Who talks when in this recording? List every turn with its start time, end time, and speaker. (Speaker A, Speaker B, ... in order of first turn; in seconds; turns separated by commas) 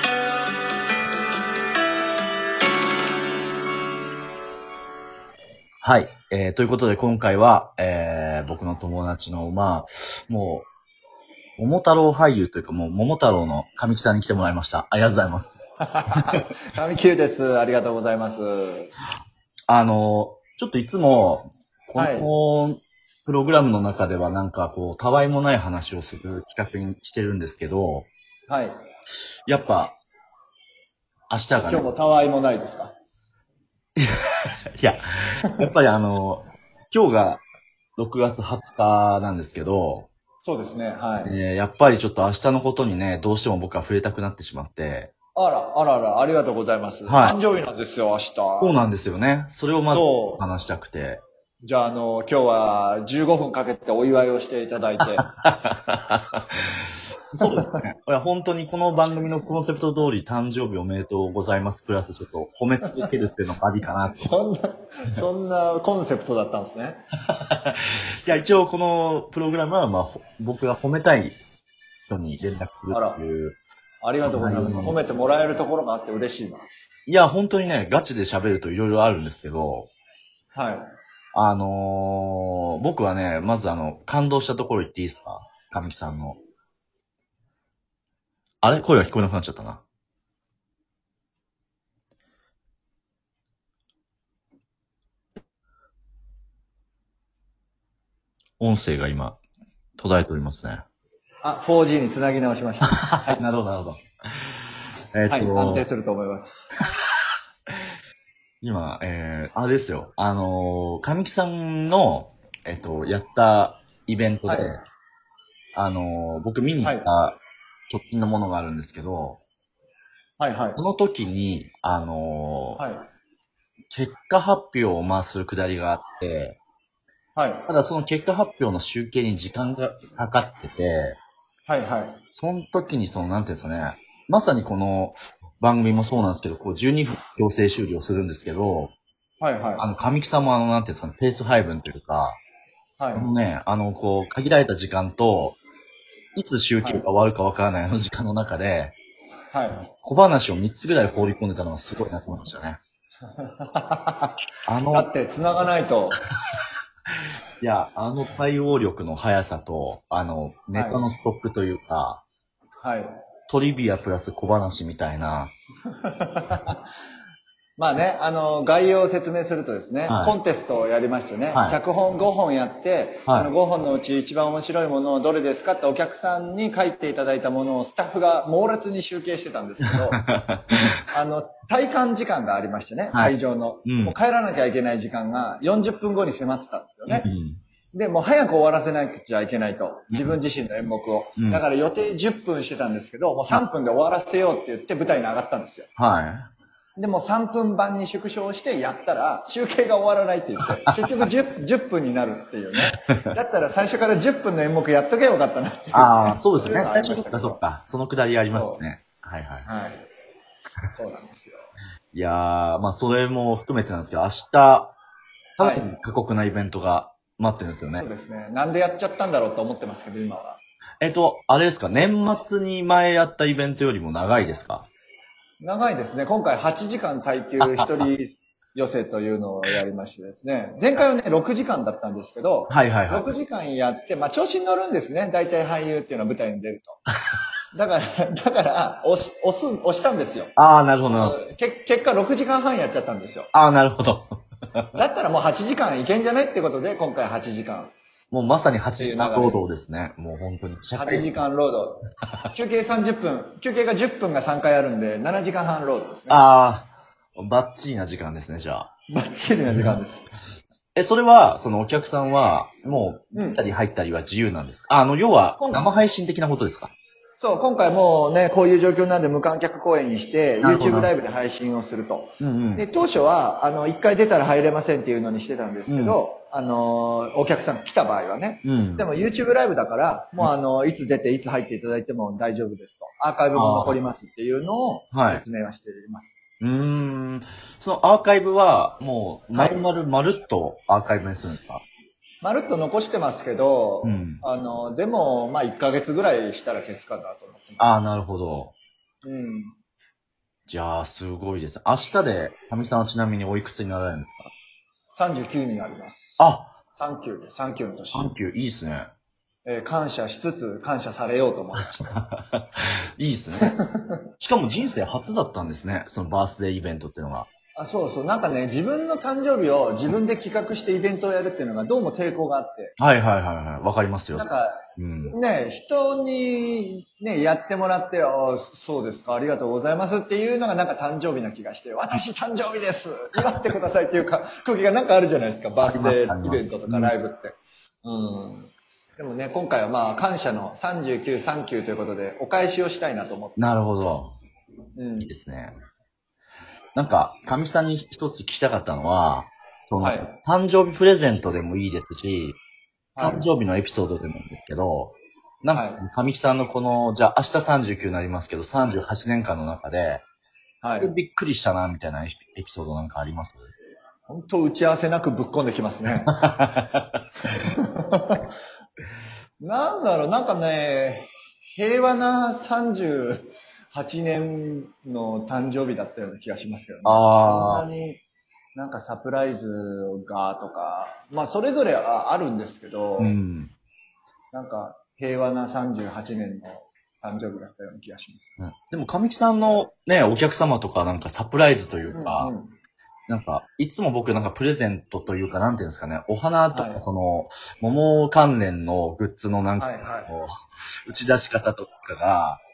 Speaker A: 5.8-10.7, Speaker A: 11.6-15.6, Speaker B: 15.8-18.9, Speaker A: 19.7-28.1, Speaker B: 21.9-22.3, Speaker B: 28.5-28.8, Speaker A: 29.5-30.0, Speaker A: 31.3-31.9, Speaker B: 31.7-32.9, Speaker A: 34.0-37.4, Speaker A: 38.0-40.1, Speaker B: 40.4-41.4, Speaker A: 41.2-45.1, Speaker B: 45.4-48.8, Speaker A: 47.0-47.4, Speaker A: 48.6-51.2, Speaker B: 49.9-50.4, Speaker B: 51.6-55.2, Speaker A: 55.2-64.3, Speaker B: 57.4-57.8, Speaker B: 62.8-63.1, Speaker B: 64.2-67.0, Speaker A: 67.3-71.3, Speaker A: 72.1-73.6, Speaker B: 72.9-73.2, Speaker B: 74.0-76.7, Speaker A: 74.2-75.0, Speaker A: 77.1-79.9, Speaker B: 80.5-80.9, Speaker A: 81.3-86.4, Speaker A: 88.6-89.8, Speaker A: 98.6-99.4, Speaker A: 100.0-100.8, Speaker B: 101.4-103.4, Speaker A: 103.0-104.5, Speaker A: 105.1-105.8, Speaker B: 105.3-106.7, Speaker A: 108.6-114.8, Speaker B: 114.5-114.7, Speaker A: 115.7-119.4, Speaker B: 116.8-117.1, Speaker B: 120.4-120.8, Speaker A: 120.8-122.8, Speaker B: 122.8-123.1, Speaker A: 123.9-126.6, Speaker B: 127.3-127.7, Speaker A: 127.7-131.2, Speaker B: 131.7-132.2, Speaker A: 132.3-138.9, Speaker B: 139.4-139.8, Speaker A: 139.8-142.4, Speaker B: 143.0-143.3, Speaker A: 143.1-145.6, Speaker A: 146.3-148.9, Speaker B: 149.5-149.8, Speaker A: 150.0-152.8, Speaker B: 153.3-154.4, Speaker A: 154.7-155.1, Speaker B: 154.9-156.2, Speaker A: 157.1-162.2, Speaker B: 160.7-161.0, Speaker B: 162.8-163.1, Speaker A: 163.5-165.5, Speaker B: 165.9-166.8, Speaker B: 167.8-180.2, Speaker A: 170.1-170.3, Speaker A: 179.9-181.0, Speaker B: 181.1-187.3, Speaker A: 183.8-184.1, Speaker A: 187.1-187.6, Speaker B: 187.9-195.9, Speaker A: 196.0-196.5, Speaker B: 197.0-207.6, Speaker A: 202.9-203.4, Speaker A: 205.9-209.7, Speaker B: 208.5-208.8, Speaker B: 209.6-210.1, Speaker B: 210.9-211.7, Speaker A: 212.1-214.9, Speaker A: 215.6-218.1, Speaker B: 215.6-215.9, Speaker B: 217.9-220.6, Speaker A: 221.0-224.9, Speaker B: 225.6-237.0, Speaker A: 227.6-228.0, Speaker A: 232.7-233.2, Speaker B: 237.7-240.5, Speaker A: 240.6-241.4, Speaker B: 241.1-243.5, Speaker A: 243.5-244.9, Speaker B: 244.9-247.9, Speaker A: 248.3-251.3, Speaker B: 249.0-249.6, Speaker B: 251.0-256.4, Speaker A: 256.3-258.9, Speaker B: 259.1-260.3, Speaker A: 259.7-260.0, Speaker A: 260.9-266.9, Speaker B: 263.3-263.6, Speaker B: 265.6-265.9, Speaker B: 267.4-286.4, Speaker A: 270.6-271.1, Speaker A: 272.4-272.8, Speaker A: 275.9-276.2, Speaker A: 278.6-279.1, Speaker A: 283.5-284.0, Speaker A: 285.1-285.4, Speaker A: 286.6-291.8, Speaker B: 289.5-289.8, Speaker B: 292.4-297.9, Speaker A: 294.0-294.4, Speaker A: 297.8-298.7, Speaker B: 299.2-299.7, Speaker A: 300.7-304.5, Speaker B: 305.1-306.4, Speaker A: 306.4-306.7, Speaker B: 306.9-308.3, Speaker A: 308.1-309.1, Speaker B: 309.6-312.2, Speaker A: 312.0-313.8, Speaker B: 313.6-314.2, Speaker A: 314.4-317.5, Speaker B: 317.8-323.0, Speaker A: 323.0-325.3, Speaker B: 324.3-343.7, Speaker A: 335.8-337.1, Speaker A: 343.6-344.4, Speaker B: 344.9-345.3, Speaker A: 345.2-345.7, Speaker A: 346.9-352.6, Speaker B: 350.0-350.3, Speaker B: 353.1-353.5, Speaker A: 353.2-360.2, Speaker B: 355.7-356.0, Speaker B: 360.8-361.1, Speaker A: 361.0-363.7, Speaker B: 364.3-366.4, Speaker A: 366.3-367.2, Speaker B: 367.4-368.5, Speaker B: 369.6-378.2, Speaker A: 377.0-377.9, Speaker B: 378.7-383.4, Speaker A: 383.2-383.7, Speaker B: 384.5-388.6, Speaker A: 388.6-392.5, Speaker B: 392.1-392.7, Speaker A: 393.3-400.5, Speaker B: 396.7-397.1, Speaker B: 399.8-400.3, Speaker A: 401.1-402.6